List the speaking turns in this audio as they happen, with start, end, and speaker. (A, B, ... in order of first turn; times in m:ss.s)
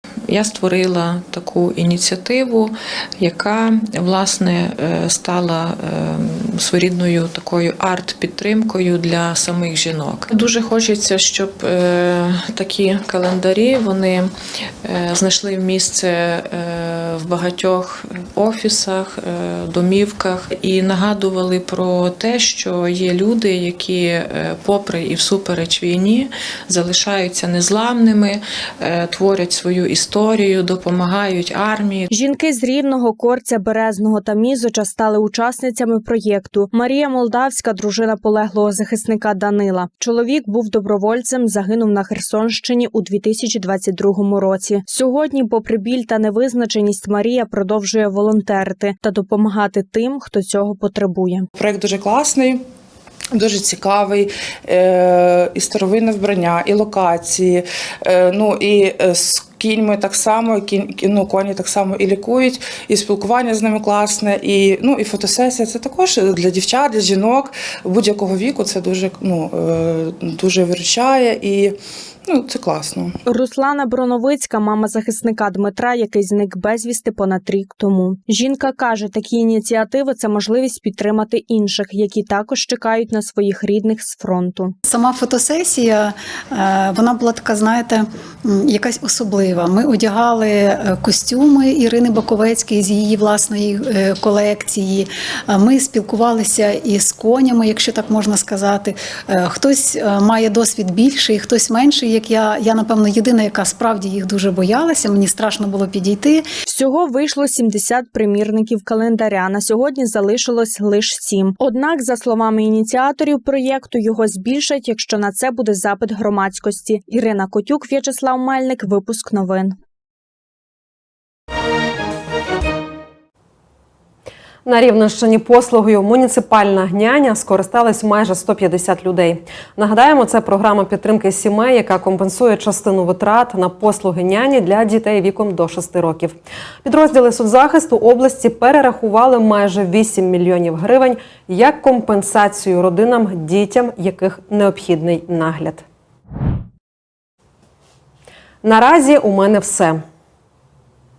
0:00.3-0:32.1 A
0:32.1-0:51.5 B
0:51.6-0:52.6 C
0:53.3-1:13.2 C
1:13.2-1:24.7 B
1:24.8-1:46.4 D
1:46.7-1:59.7 B
2:04.6-2:25.8 E
2:28.6-2:30.0 E